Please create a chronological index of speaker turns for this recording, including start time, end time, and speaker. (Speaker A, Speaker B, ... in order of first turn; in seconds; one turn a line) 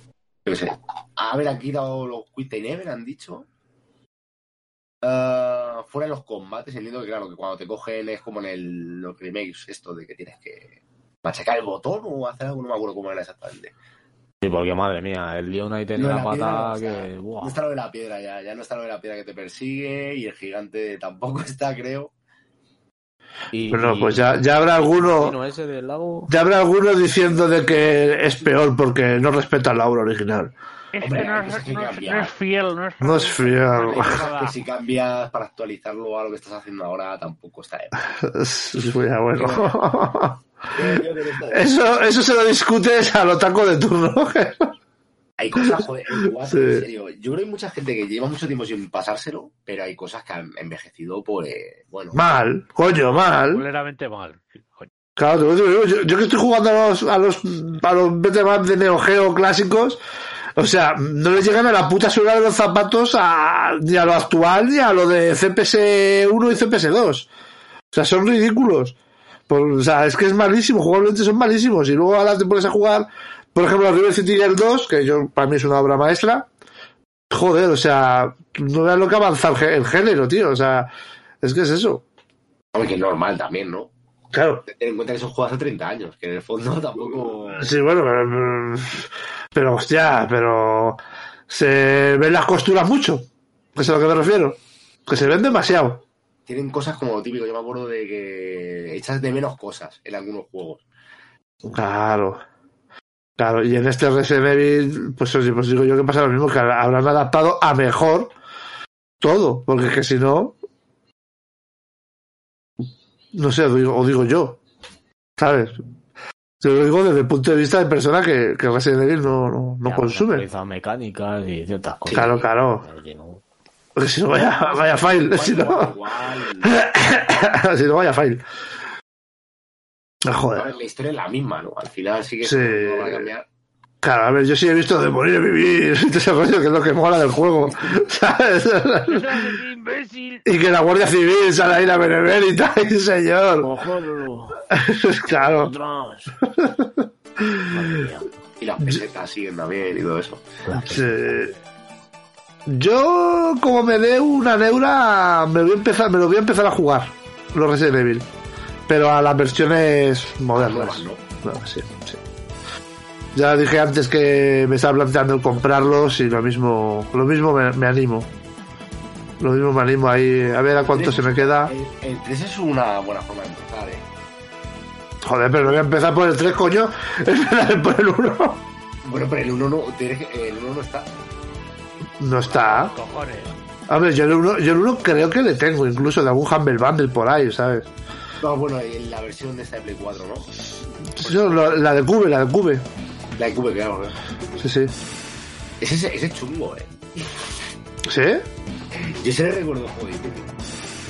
Speaker A: 0.5-3.5
Speaker A: 5.0-13.7
Speaker B: 14.4-17.6
Speaker A: 16.0-22.1
Speaker B: 23.5-26.3
Speaker C: 23.7-25.4
Speaker C: 26.3-30.5
Speaker D: 30.9-34.6
Speaker A: 31.0-32.3
Speaker C: 33.0-34.2
Speaker A: 33.8-38.1
Speaker C: 38.0-44.7
Speaker A: 39.4-39.8
Speaker A: 40.7-41.7
Speaker A: 45.4-52.2
Speaker C: 45.6-46.9
Speaker C: 52.1-53.6
Speaker D: 53.4-54.9
Speaker C: 55.2-60.0
Speaker C: 60.6-67.3
Speaker C: 67.9-69.0
Speaker C: 69.5-76.5
Speaker C: 77.3-80.9
Speaker C: 81.4-82.0
Speaker A: 82.7-83.9
Speaker C: 84.3-84.6
Speaker A: 84.7-87.8
Speaker C: 87.6-96.0
Speaker A: 96.5-100.8
Speaker C: 101.6-102.4
Speaker C: 103.4-108.3
Speaker C: 109.2-110.6
Speaker C: 113.3-114.6
Speaker C: 115.4-115.8
Speaker C: 116.6-120.5
Speaker B: 119.8-123.4
Speaker A: 122.1-122.4
Speaker C: 122.1-122.9
Speaker C: 124.0-126.0
Speaker A: 124.4-126.7
Speaker C: 126.6-128.4
Speaker C: 130.2-130.7
Speaker A: 130.5-133.4
Speaker C: 132.4-133.3
Speaker C: 134.0-139.6
Speaker D: 139.1-140.5
Speaker C: 140.5-143.7
Speaker B: 143.6-144.6
Speaker C: 144.7-145.7
Speaker B: 145.4-146.4
Speaker C: 146.4-148.1
Speaker B: 147.7-148.3
Speaker A: 148.6-150.5
Speaker B: 150.7-151.2
Speaker C: 150.8-151.5
Speaker C: 152.7-158.3
Speaker C: 158.9-162.2
Speaker A: 160.5-161.2
Speaker C: 163.3-168.3
Speaker C: 169.4-171.7
Speaker A: 170.8-174.1
Speaker C: 175.2-178.6
Speaker A: 179.0-181.1
Speaker C: 182.2-182.9
Speaker D: 182.5-183.5
Speaker C: 183.9-187.9
Speaker A: 188.4-190.5
Speaker C: 191.1-192.8
Speaker D: 191.2-191.7
Speaker A: 193.4-194.2
Speaker C: 194.6-194.9
Speaker A: 195.8-197.4
Speaker C: 198.1-198.5
Speaker A: 198.9-200.5